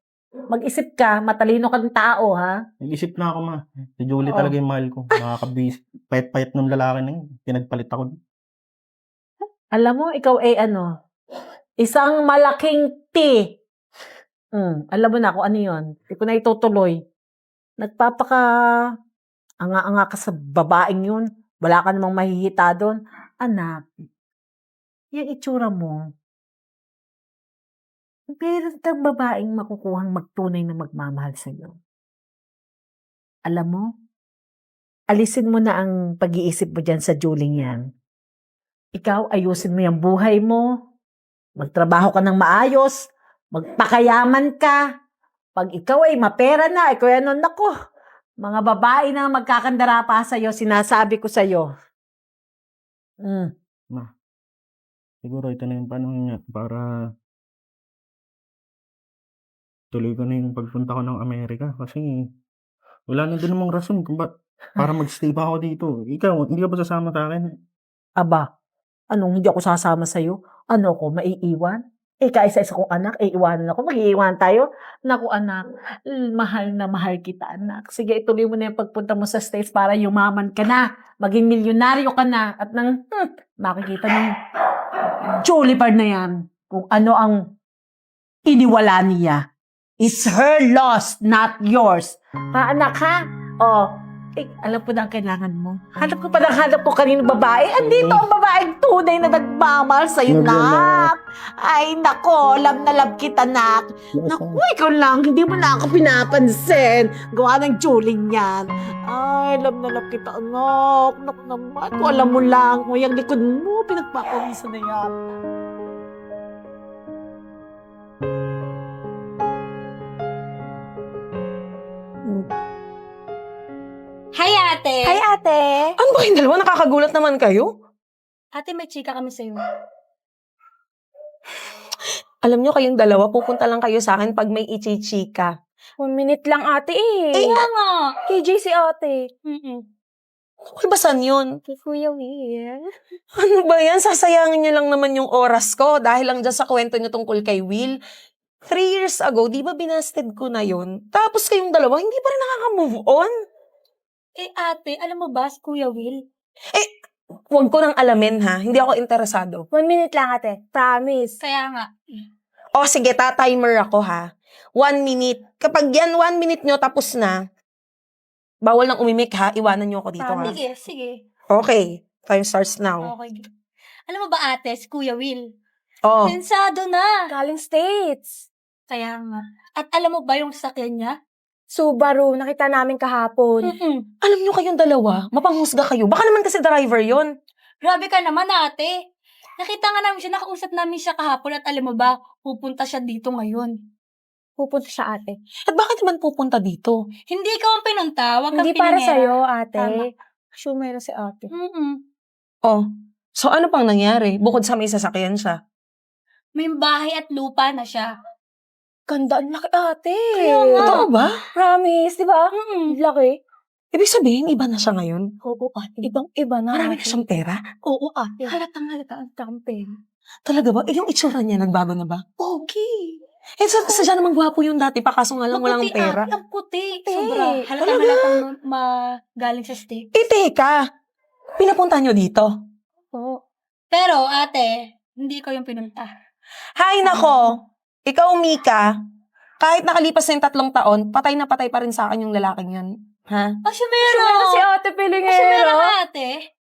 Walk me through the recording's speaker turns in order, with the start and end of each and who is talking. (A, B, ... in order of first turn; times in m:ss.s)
0:00.5-0:02.6 A
0:02.8-0:08.1 B
0:09.8-0:10.9 A
0:11.8-0:13.4 A
0:14.6-0:17.0 A
0:17.8-0:18.4 A
0:19.6-0:23.8 A
0:25.2-0:26.0 A
0:28.3-0:31.8 A
0:33.5-0:33.9 A
0:35.1-0:37.8 A
0:39.0-0:40.7 A
0:41.6-0:44.8 A
0:45.6-0:47.7 A
0:48.4-0:51.7 A
0:53.2-0:53.5 A
0:55.2-0:56.8 B
0:59.9-1:02.1 B
1:03.1-1:07.4 B
1:08.2-1:08.4 A
1:09.1-1:24.3 A
1:25.4-1:27.4 A
1:28.5-1:29.4 A
1:30.0-1:33.9 A
1:34.4-1:55.2 A
1:37.8-1:38.2 B
1:40.3-1:41.1 B
1:44.1-1:44.6 B
2:04.3-2:05.2 C
2:05.1-2:05.9 D
2:06.0-2:07.7 E
2:08.5-2:09.6 C
2:12.4-2:15.5 E
2:16.0-2:17.5 D
2:17.4-2:18.2 C
2:18.3-2:19.8 D
2:20.8-2:21.5 E
2:21.6-2:22.8 D
2:23.4-2:28.0 E
2:28.7-2:33.3 E
2:34.4-2:36.2 C
2:37.5-2:39.7 E
2:39.7-2:41.4 D
2:41.4-2:41.9 C
2:42.8-2:47.4 E
2:48.6-2:50.6 E
2:50.2-2:50.6 D
2:50.4-2:51.2 C
2:51.5-2:53.1 E
2:53.0-2:53.5 C
2:54.1-2:55.4 C
2:56.1-2:56.4 E
2:56.2-2:57.3 C
2:57.3-2:58.5 D
2:58.9-3:01.2 C
3:01.7-3:03.7 D
3:03.6-3:04.0 C
3:04.2-3:07.3 E
3:07.8-3:08.9 C
3:09.6-3:13.7 C
3:14.6-3:15.4 D
3:15.7-3:17.0 E
3:17.3-3:20.0 C
3:18.5-3:21.9 D
3:23.4-3:25.6 E
3:26.6-3:28.1 C
3:29.1-3:31.0 D
3:30.3-3:31.1 C
3:30.8-3:31.4 E
3:31.6-3:33.4 D
3:32.6-3:32.9 C
3:33.9-3:35.3 E
3:35.4-3:37.2 D
3:36.7-3:37.6 E
3:37.8-3:38.6 D
3:38.5-3:39.2 E
3:39.2-3:39.9 D
3:40.5-3:42.5 E
3:42.5-3:43.0 D
3:43.6-3:46.3 E
3:45.5-3:50.1 C
3:47.1-3:48.4 E
3:47.1-3:47.7 D
3:50.1-3:50.8 E
3:51.6-3:52.5 E
3:53.9-3:56.1 C
3:56.8-3:58.9 E
3:59.6-4:03.6 E
4:03.6-4:04.7 C
4:04.0-4:06.0 D
4:05.2-4:06.5 C